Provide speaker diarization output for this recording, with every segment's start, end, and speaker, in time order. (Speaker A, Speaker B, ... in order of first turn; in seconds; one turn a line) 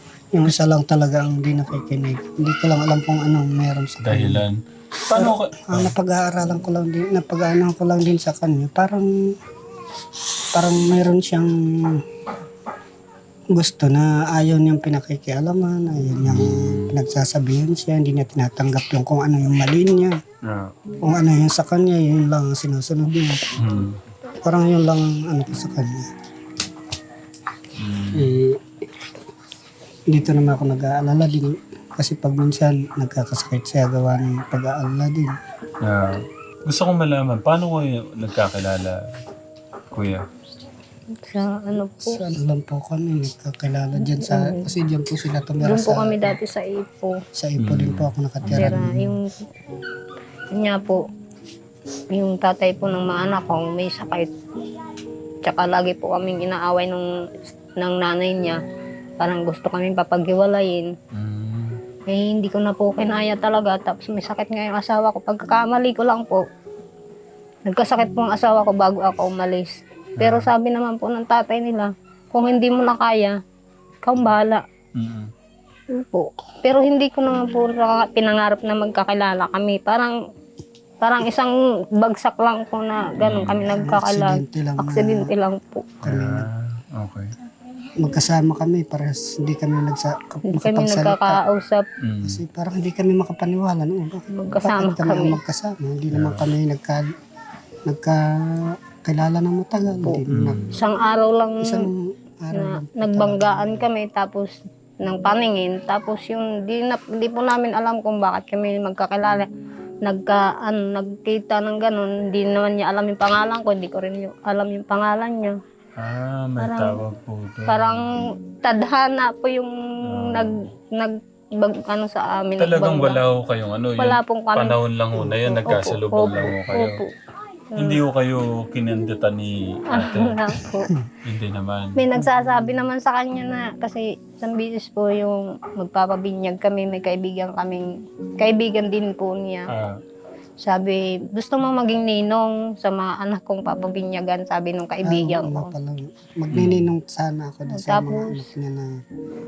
Speaker A: 0.3-4.4
Speaker B: 4.0-5.9
Speaker A: 5.1-9.3
Speaker A: 10.5-12.0
Speaker A: 13.5-20.2
Speaker B: 16.2-16.9
Speaker B: 20.5-20.8
Speaker A: 21.0-23.4
Speaker B: 23.6-24.0
Speaker A: 24.4-26.1
Speaker B: 27.8-28.4
Speaker A: 28.1-28.6
Speaker A: 30.1-35.4
Speaker B: 35.8-39.1
Speaker B: 39.9-40.3
Speaker C: 41.1-42.2
Speaker A: 42.1-46.4
Speaker C: 44.2-44.6
Speaker C: 45.6-47.2
Speaker A: 47.4-49.1
Speaker B: 47.6-49.0
Speaker C: 48.4-49.5
Speaker C: 50.5-51.0
Speaker C: 52.1-54.3
Speaker C: 55.4-58.6
Speaker C: 59.2-60.9
Speaker B: 61.1-61.8
Speaker C: 62.1-66.4
Speaker C: 67.7-73.4
Speaker B: 70.2-70.5
Speaker C: 74.0-74.6
Speaker B: 75.0-75.3
Speaker C: 75.9-80.2
Speaker C: 81.0-85.9
Speaker B: 83.2-83.7
Speaker A: 83.7-85.3
Speaker A: 86.0-86.5
Speaker B: 86.0-87.3
Speaker A: 88.0-91.4
Speaker C: 90.5-91.8
Speaker B: 92.0-92.4
Speaker A: 92.2-97.1
Speaker C: 94.3-95.4
Speaker B: 96.1-96.5
Speaker A: 97.9-100.6
Speaker B: 100.3-100.8
Speaker C: 100.7-101.9
Speaker A: 101.6-103.8
Speaker C: 102.5-109.5
Speaker C: 110.0-115.6
Speaker B: 116.0-118.1
Speaker C: 116.6-117.0
Speaker C: 117.7-123.2
Speaker B: 120.0-120.6
Speaker B: 122.6-127.0
Speaker C: 124.0-124.8
Speaker C: 125.3-127.1
Speaker C: 127.7-128.0
Speaker B: 127.8-130.6
Speaker C: 129.9-130.9
Speaker B: 131.2-132.0
Speaker C: 132.0-139.7
Speaker B: 139.7-140.0
Speaker C: 140.6-145.7
Speaker A: 145.0-149.0
Speaker B: 146.5-146.9
Speaker C: 147.7-148.5